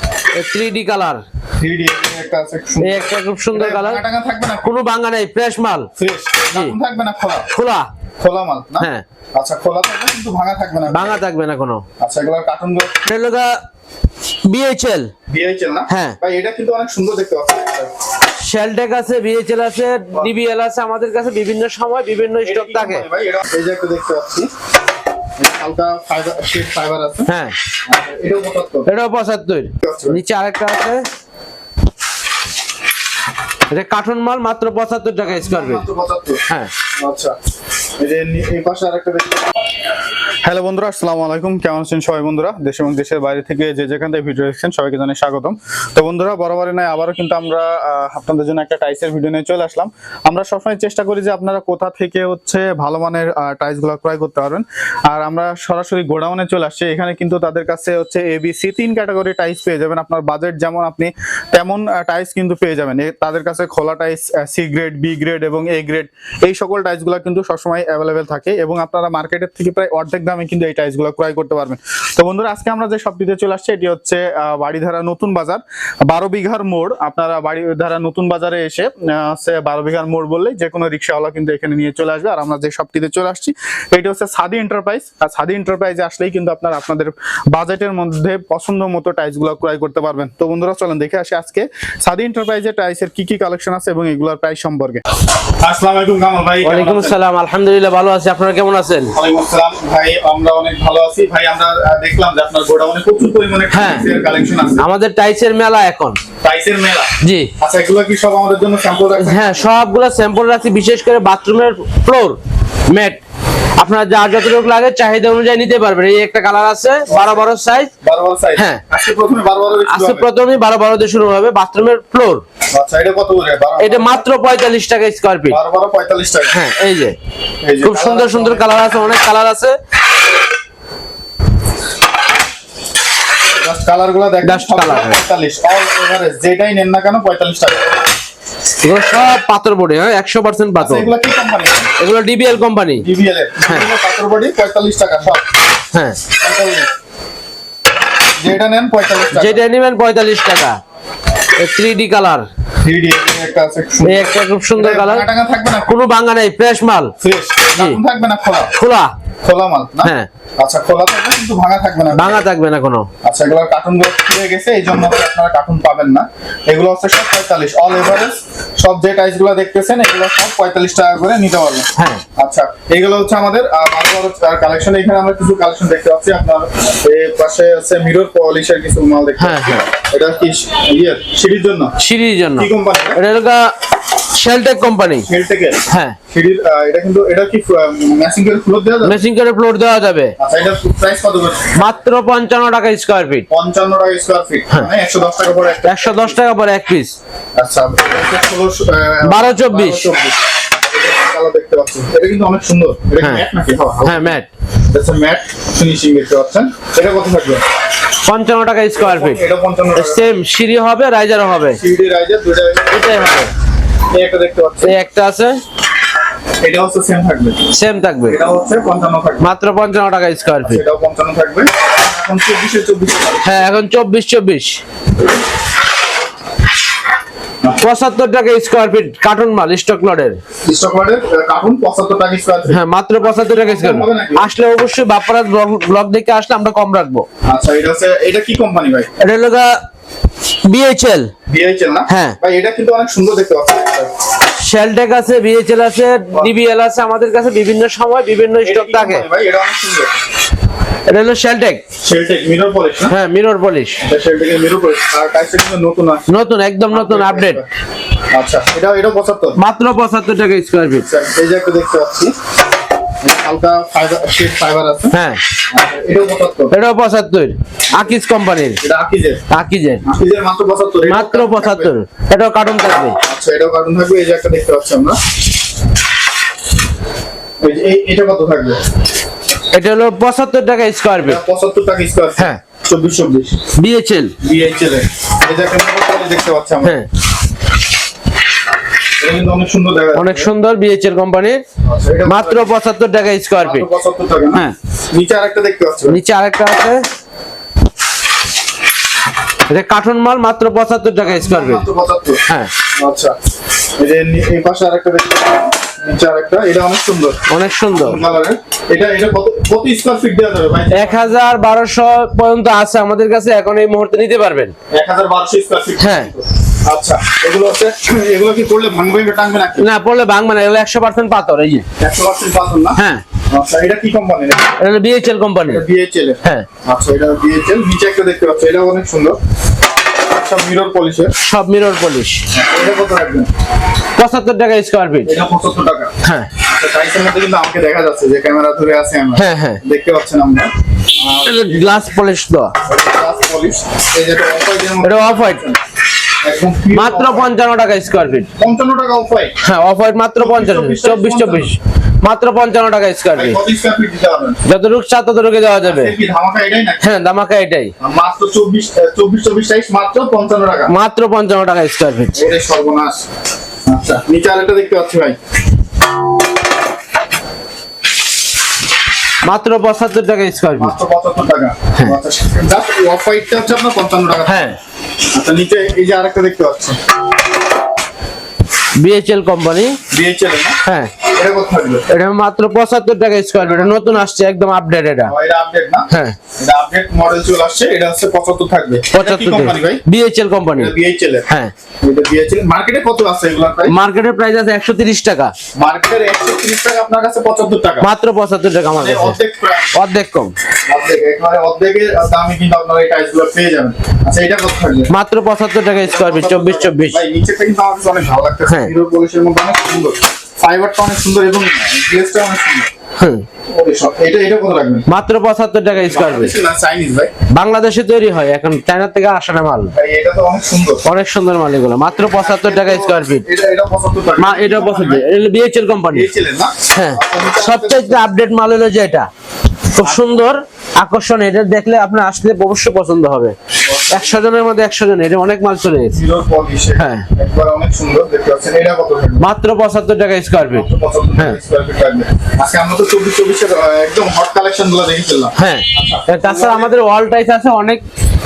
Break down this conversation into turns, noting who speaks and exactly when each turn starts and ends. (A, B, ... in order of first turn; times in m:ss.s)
0:00.3-0:01.2 A
0:01.6-0:04.7 B
0:02.8-0:04.0 A
0:04.6-0:05.9 A
0:06.0-0:07.5 B
0:06.5-0:06.8 A
0:07.5-0:07.9 A
0:08.2-0:11.2 B
0:08.8-0:09.0 A
0:10.9-0:11.8 A
0:12.0-0:13.0 B
0:13.0-0:13.6 A
0:14.5-0:15.1 A
0:15.3-0:17.9 B
0:15.9-0:16.2 A
0:18.2-0:23.1 A
0:22.4-0:24.5 B
0:25.4-0:27.3 B
0:27.3-0:27.6 A
0:27.9-0:28.9 B
0:28.8-0:31.0 A
0:29.8-0:30.2 B
0:33.7-0:35.9 A
0:35.3-0:36.4 B
0:36.5-0:36.7 A
0:37.0-0:37.4 B
0:38.0-0:39.4 B
0:40.4-1:35.0 B
1:35.6-1:37.2 B
1:36.6-1:39.2 A
1:39.1-1:44.9 B
1:43.7-1:44.1 A
1:44.7-1:46.2 A
1:46.4-1:49.7 B
1:47.2-1:47.5 A
1:49.2-1:52.4 A
1:52.9-1:53.2 A
1:53.8-1:57.9 A
1:57.1-2:00.3 B
1:58.6-1:58.8 A
1:59.9-2:02.4 A
2:02.7-2:04.3 B
2:03.8-2:05.6 A
2:05.5-2:06.6 B
2:06.5-2:07.2 A
2:07.6-2:09.2 B
2:07.8-2:09.8 A
2:13.6-2:18.0 B
2:14.4-2:15.2 A
2:18.8-2:21.1 A
2:20.8-2:21.9 B
2:22.0-2:23.1 A
2:23.0-2:25.4 B
2:25.9-2:26.3 A
2:26.4-2:26.9 B
2:28.4-2:29.6 B
2:29.3-2:30.8 A
2:31.6-2:32.5 A
2:32.8-2:35.9 B
2:34.0-2:35.3 A
2:35.8-2:37.1 A
2:37.2-2:38.7 B
2:38.7-2:39.2 A
2:39.4-2:42.4 B
2:40.0-2:40.3 A
2:42.1-2:43.1 A
2:43.2-3:01.9 B
2:52.0-2:52.2 A
2:59.4-2:59.9 A
3:02.0-3:05.3 A
3:02.6-3:03.2 B
3:05.2-3:09.2 B
3:05.9-3:06.2 A
3:09.0-3:10.4 A
3:10.4-3:12.0 B
3:11.8-3:13.5 A
3:13.5-3:16.4 B
3:15.9-3:17.2 A
3:17.6-3:24.4 B
3:19.3-3:20.1 A
3:24.0-3:24.5 A
3:24.9-3:27.6 B
3:28.2-3:29.4 A
3:29.0-3:30.3 B
3:30.0-3:31.8 A
3:31.8-3:33.4 B
3:32.9-3:33.5 A
3:34.1-3:35.0 B
3:34.8-3:35.6 A
3:36.6-3:37.6 B
3:37.7-3:38.4 A
3:38.3-3:39.5 B
3:39.4-3:40.8 A
3:40.6-3:43.8 B
3:43.4-3:44.8 A
3:47.8-3:50.4 A
3:50.6-3:54.5 B
3:52.7-3:57.3 A
3:57.5-3:59.1 B
3:59.2-3:59.8 A
4:00.7-4:01.3 A
4:01.5-4:04.1 B
4:02.1-4:02.4 A
4:04.5-4:09.2 A
4:06.3-4:06.6 B
4:08.6-4:10.2 B
4:11.1-4:11.8 A
4:12.0-4:13.1 B
4:13.1-4:14.0 A
4:14.0-4:16.3 B
4:16.3-4:17.6 A
4:16.9-4:17.6 B
4:18.3-4:19.6 B
4:19.6-4:21.1 A
4:21.0-4:22.4 B
4:23.2-4:25.2 B
4:25.1-4:25.4 A
4:25.7-4:26.7 B
4:26.7-4:28.8 A
4:28.8-4:29.4 B
4:29.5-4:30.0 A
4:30.0-4:31.9 B
4:31.1-4:33.2 A
4:33.2-4:35.2 B
4:37.6-4:38.8 B
4:39.7-4:41.4 A
4:41.2-4:43.6 B
4:43.7-4:44.4 A
4:44.4-4:47.0 B
4:46.8-4:47.1 A
4:49.2-4:50.5 B
4:50.2-4:51.6 A
4:51.8-4:52.8 B
4:52.3-4:53.9 A
4:53.6-4:56.2 B
4:56.1-4:57.0 A
4:59.7-5:01.9 A
5:01.2-5:02.4 B
5:02.5-5:02.7 A
5:03.0-5:03.4 B
5:04.0-5:07.4 B
5:07.5-5:08.2 A
5:07.9-5:11.4 B
5:10.9-5:14.7 A
5:14.9-5:19.9 B
5:16.0-5:16.3 A
5:19.8-5:21.9 A
5:22.0-5:24.8 B
5:23.0-5:23.2 A
5:24.8-5:25.8 A
5:25.7-5:29.4 B
5:26.4-5:26.7 A
5:30.2-5:31.3 B
5:31.4-5:32.4 A
5:32.5-5:33.5 B
5:34.2-5:35.4 A
5:35.2-5:42.1 B
5:36.2-5:36.5 A
5:39.4-5:39.8 A
5:41.4-5:42.8 A
5:42.8-5:45.8 B
5:45.0-5:45.6 A
5:46.4-5:47.6 B
5:46.9-5:48.5 A
5:48.6-5:49.6 B
5:49.6-5:53.6 A
5:50.4-5:51.8 B
5:53.3-5:54.6 B
5:54.6-5:56.1 A
5:55.8-5:57.1 B
5:57.0-5:57.9 A
5:58.0-6:00.9 B
6:00.9-6:02.4 A
6:02.3-6:03.2 B
6:03.9-6:05.4 B
6:09.4-6:11.0 A
6:10.8-6:14.8 B
6:14.5-6:14.8 A
6:15.3-6:17.0 B
6:19.0-6:20.0 A
6:20.1-6:22.1 B
6:20.8-6:21.2 A
6:22.1-6:25.3 A
6:23.6-6:24.2 B
6:25.2-6:30.0 B
6:26.1-6:26.4 A
6:29.1-6:30.9 A
6:30.7-6:31.5 B
6:32.0-6:34.0 B
6:33.9-6:35.5 A
6:35.8-6:38.1 B
6:38.0-6:39.4 A
6:38.9-6:40.0 B
6:39.9-6:40.5 A
6:40.9-6:45.1 B
6:45.1-6:47.2 A
6:46.0-6:52.9 B
6:48.7-6:48.9 A
6:53.2-6:53.4 A
6:53.7-6:55.1 B
6:55.1-6:56.6 A
6:55.9-6:57.4 B
6:57.5-7:00.0 A
6:59.9-7:01.0 B
7:01.0-7:03.5 A
7:02.2-7:05.2 B
7:04.4-7:06.3 A
7:06.1-7:08.3 B
7:06.9-7:09.3 A
7:09.9-7:13.6 A
7:10.0-7:10.4 B
7:13.8-7:14.4 B
7:14.1-7:16.2 A
7:16.1-7:19.5 B
7:17.0-7:17.3 A
7:19.4-7:20.9 A
7:20.7-7:26.9 B
7:25.6-7:28.0 A